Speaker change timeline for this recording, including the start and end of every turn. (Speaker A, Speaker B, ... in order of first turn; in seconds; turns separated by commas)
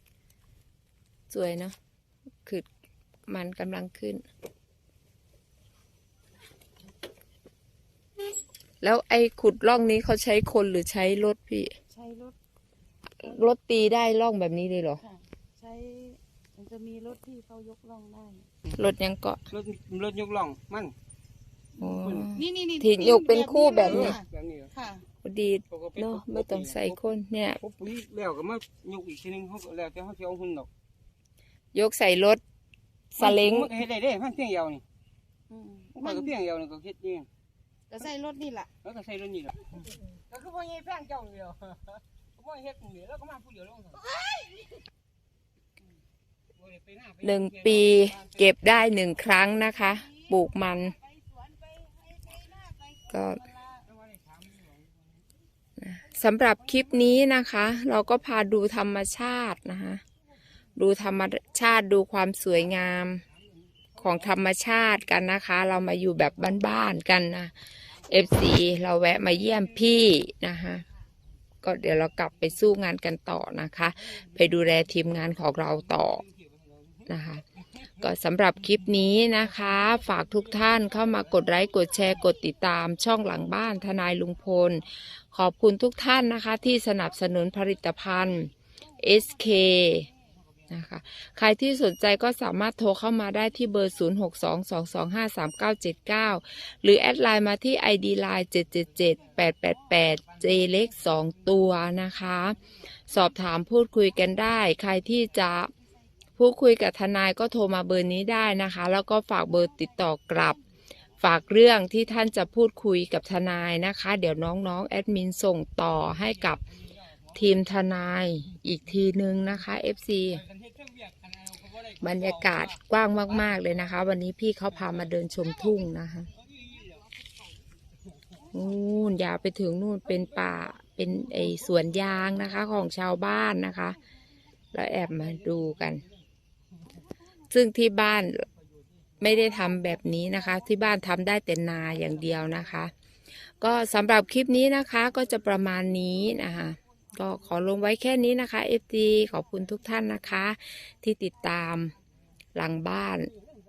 Speaker A: 1.3-1.8, Speaker A: 3.3-4.2, Speaker A: 8.8-11.7, Speaker B: 11.9-12.4, Speaker A: 13.2-15.0, Speaker B: 15.0-18.5, Speaker A: 18.8-19.4, Speaker C: 19.5-20.9, Speaker A: 21.8-24.2, Speaker C: 21.8-22.3, Speaker B: 22.2-25.1, Speaker C: 23.8-24.7, Speaker A: 25.2-27.6, Speaker C: 25.7-27.0, Speaker C: 27.6-30.7, Speaker A: 31.8-32.4, Speaker A: 33.1-33.8, Speaker C: 33.2-34.8, Speaker B: 35.5-36.3, Speaker C: 36.0-37.3, Speaker B: 37.9-38.7, Speaker C: 38.8-44.1, Speaker C: 46.6-48.4, Speaker A: 47.2-51.0, Speaker B: 51.2-53.8, Speaker A: 53.1-53.5, Speaker C: 53.9-54.9, Speaker A: 55.8-60.0, Speaker A: 60.8-63.2, Speaker A: 64.0-70.8, Speaker A: 71.6-76.2, Speaker C: 76.0-77.0, Speaker A: 77.1-77.4, Speaker A: 78.0-90.1, Speaker B: 88.9-90.3, Speaker A: 90.7-105.7, Speaker B: 99.2-100.0, Speaker C: 100.4-100.8, Speaker A: 106.4-110.6, Speaker B: 109.5-110.6, Speaker A: 111.2-116.6, Speaker A: 117.3-120.4, Speaker C: 120.6-122.4, Speaker A: 122.0-126.3, Speaker C: 126.6-127.0, Speaker A: 128.5-134.0, Speaker A: 134.7-136.1, Speaker A: 137.5-138.5, Speaker A: 139.2-142.9, Speaker A: 143.6-151.9, Speaker A: 152.6-153.3